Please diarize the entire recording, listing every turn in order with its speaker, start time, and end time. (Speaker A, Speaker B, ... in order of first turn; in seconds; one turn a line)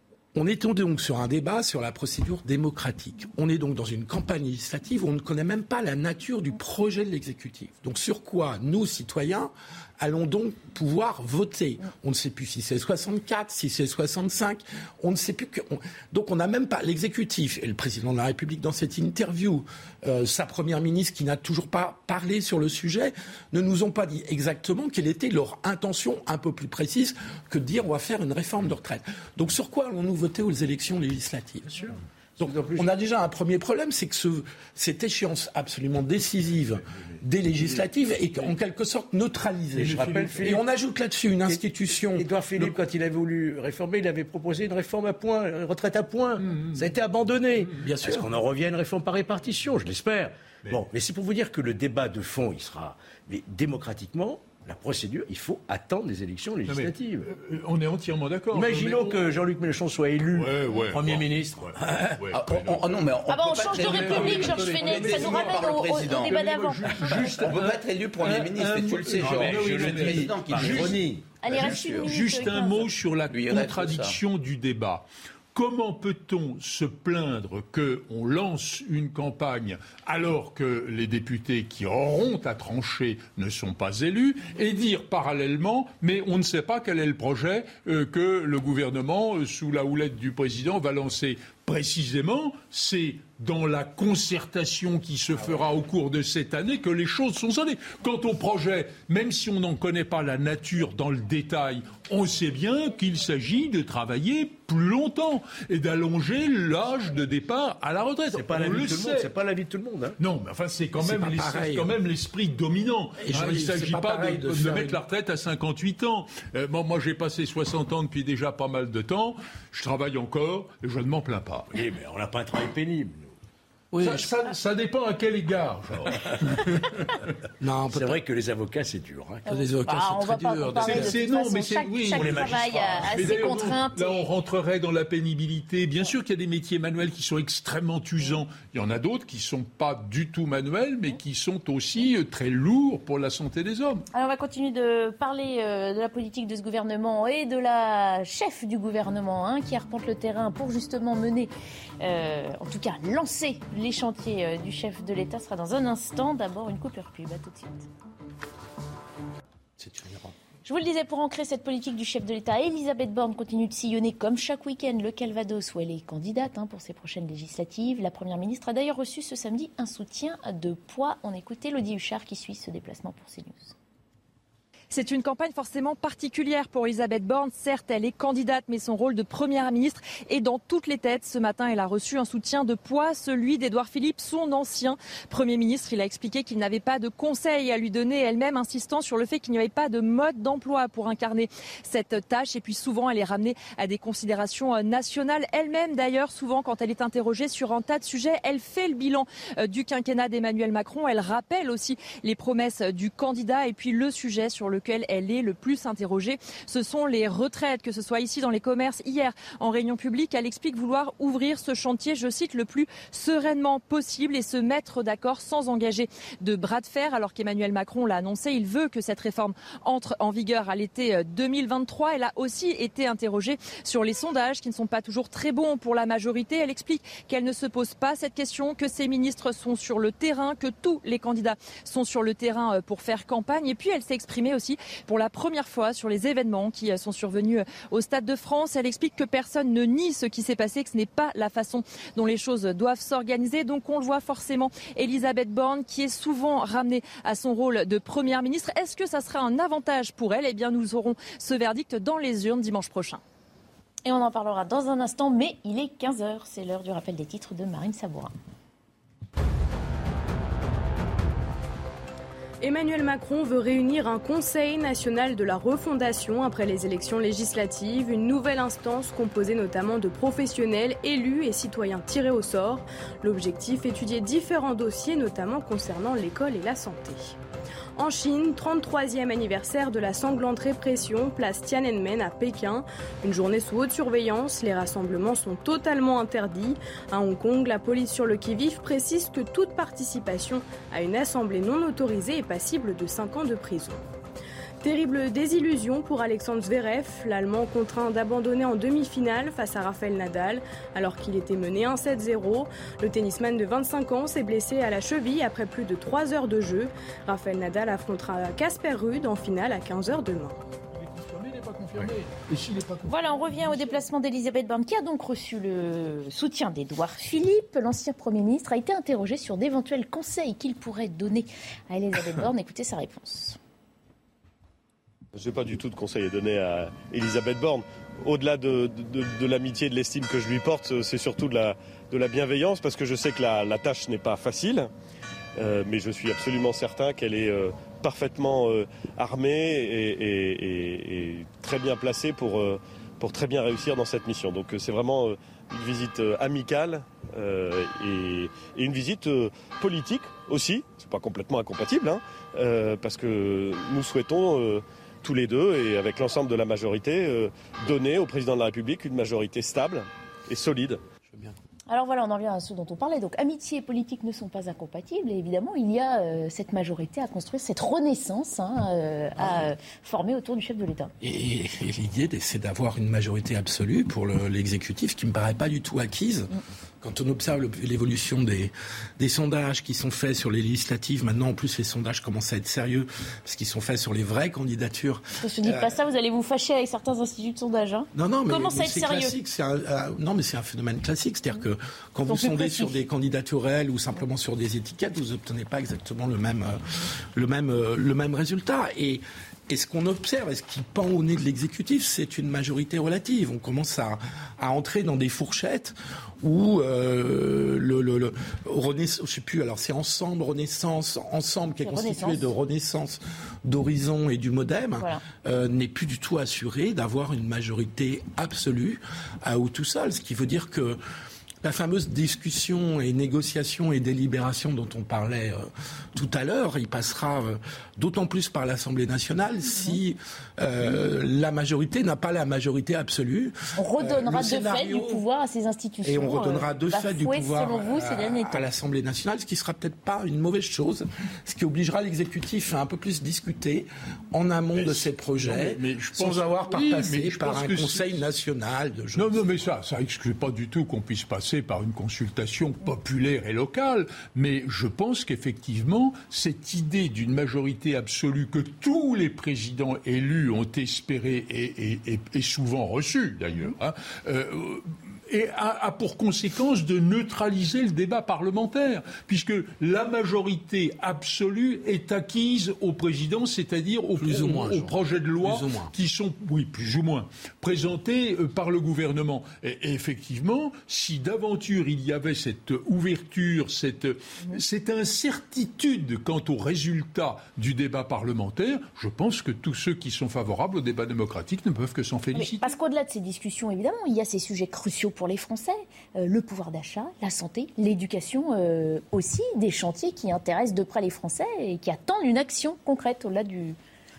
Speaker A: 0.3-31.9
Speaker B: 31.8-32.9
Speaker A: 32.4-42.8
Speaker C: 39.8-40.5
Speaker B: 39.8-40.6
Speaker B: 42.1-57.3
Speaker C: 46.5-46.8
Speaker A: 47.8-48.3
Speaker C: 56.7-59.3
Speaker B: 58.5-62.2
Speaker C: 60.3-62.8
Speaker D: 62.3-66.4
Speaker E: 63.3-66.9
Speaker C: 63.7-109.3
Speaker D: 67.1-72.1
Speaker B: 67.1-67.5
Speaker B: 69.2-71.3
Speaker E: 71.4-72.9
Speaker D: 73.3-74.2
Speaker B: 108.3-110.2
Speaker C: 110.2-121.7
Speaker A: 111.0-111.9
Speaker A: 113.2-115.0
Speaker B: 121.7-123.3
Speaker A: 123.9-124.3
Speaker C: 124.0-126.9
Speaker B: 126.0-126.6
Speaker A: 127.6-128.2
Speaker B: 127.9-129.5
Speaker A: 129.4-131.1
Speaker E: 129.5-134.3
Speaker C: 130.8-144.1
Speaker B: 132.0-133.6
Speaker E: 144.1-157.8
Speaker A: 159.8-160.3
Speaker E: 160.6-173.7
Speaker F: 174.9-253.2
Speaker E: 254.1-258.3
Speaker G: 262.6-277.4
Speaker G: 278.0-294.1
Speaker G: 294.8-310.6
Speaker C: 310.9-314.0
Speaker E: 313.1-323.6
Speaker H: 325.4-334.9
Speaker H: 335.6-361.0
Speaker A: 361.3-361.6
Speaker E: 361.9-371.1
Speaker A: 369.4-369.7
Speaker A: 371.2-385.9
Speaker E: 385.4-389.4
Speaker A: 388.1-421.0
Speaker E: 392.3-393.0
Speaker E: 411.8-412.5
Speaker A: 421.6-435.2
Speaker E: 433.8-438.6
Speaker A: 436.0-449.4
Speaker C: 444.7-448.2
Speaker C: 449.1-492.7
Speaker A: 474.2-475.9
Speaker E: 492.3-503.8